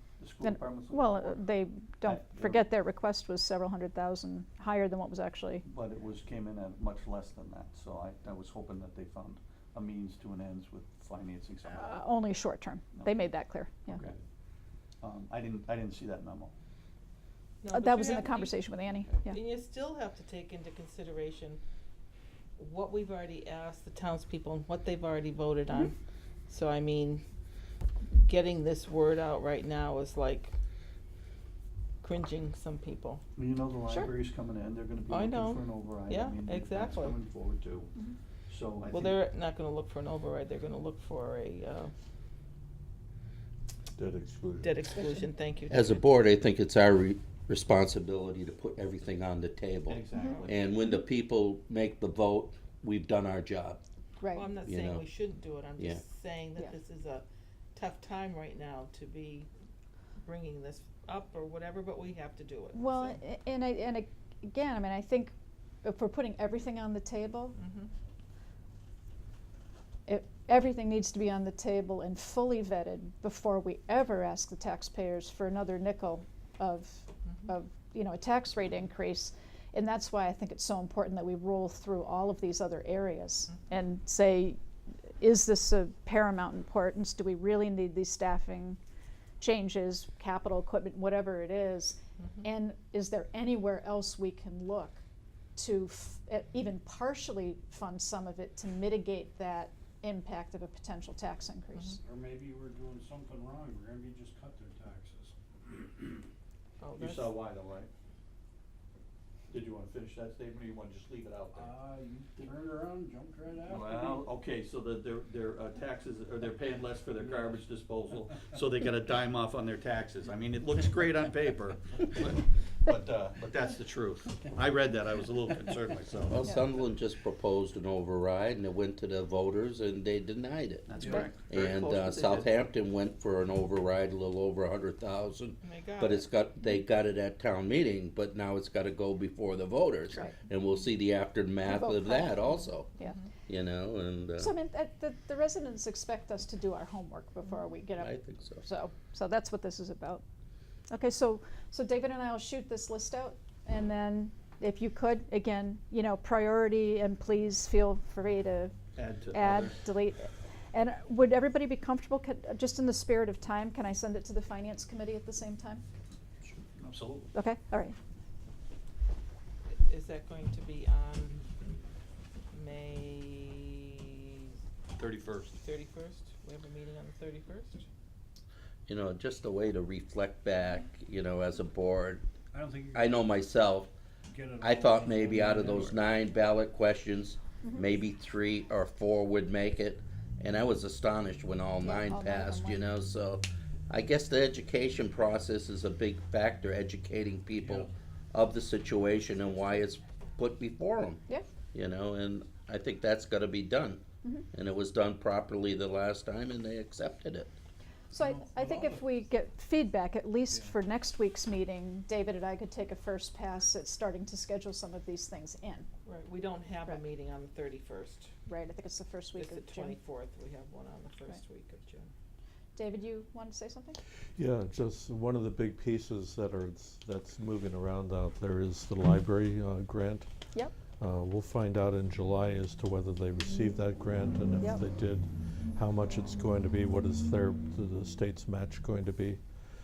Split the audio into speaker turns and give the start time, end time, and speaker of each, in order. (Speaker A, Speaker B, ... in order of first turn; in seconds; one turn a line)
Speaker A: 0.2-1.4
Speaker B: 0.4-5.7
Speaker A: 2.0-2.7
Speaker A: 5.7-12.0
Speaker B: 11.7-14.0
Speaker A: 13.0-13.3
Speaker A: 13.8-14.2
Speaker A: 15.0-16.5
Speaker C: 17.6-18.6
Speaker B: 17.7-19.4
Speaker C: 19.2-21.6
Speaker C: 22.6-25.9
Speaker C: 26.5-27.2
Speaker C: 28.1-30.5
Speaker C: 32.0-33.2
Speaker A: 33.3-37.9
Speaker C: 35.1-37.2
Speaker A: 38.5-39.2
Speaker C: 38.9-41.9
Speaker D: 44.0-44.8
Speaker C: 44.6-46.0
Speaker E: 45.7-53.8
Speaker A: 49.9-51.0
Speaker B: 54.2-54.5
Speaker C: 54.3-59.5
Speaker E: 54.6-55.1
Speaker E: 55.8-56.0
Speaker C: 60.2-63.2
Speaker B: 62.7-67.5
Speaker C: 67.5-67.9
Speaker B: 70.0-84.6
Speaker B: 85.2-88.8
Speaker B: 89.4-95.0
Speaker B: 95.5-102.0
Speaker F: 102.0-105.3
Speaker C: 106.8-107.3
Speaker A: 107.0-107.9
Speaker A: 109.5-111.8
Speaker F: 111.5-114.3
Speaker A: 113.6-126.4
Speaker E: 126.3-130.9
Speaker A: 130.9-132.5
Speaker E: 131.5-142.9
Speaker C: 135.6-136.2
Speaker B: 141.6-143.1
Speaker C: 143.0-143.3
Speaker E: 143.5-144.5
Speaker B: 144.4-150.2
Speaker E: 147.9-148.7
Speaker B: 150.9-158.8
Speaker A: 158.9-159.8
Speaker B: 159.3-165.8
Speaker A: 166.4-167.3
Speaker B: 167.3-167.9
Speaker C: 169.8-171.5
Speaker C: 172.5-174.5
Speaker A: 174.9-175.6
Speaker C: 175.5-177.8
Speaker E: 178.9-182.3
Speaker F: 182.5-183.1
Speaker E: 182.9-183.9
Speaker F: 184.3-186.1
Speaker E: 184.6-207.5
Speaker B: 187.6-187.9
Speaker B: 191.8-192.8
Speaker F: 197.6-197.9
Speaker B: 208.1-215.9
Speaker F: 208.2-209.0
Speaker C: 216.0-218.3
Speaker B: 218.5-220.0
Speaker C: 219.4-222.1
Speaker B: 222.8-224.0
Speaker D: 224.3-230.3
Speaker D: 231.0-239.4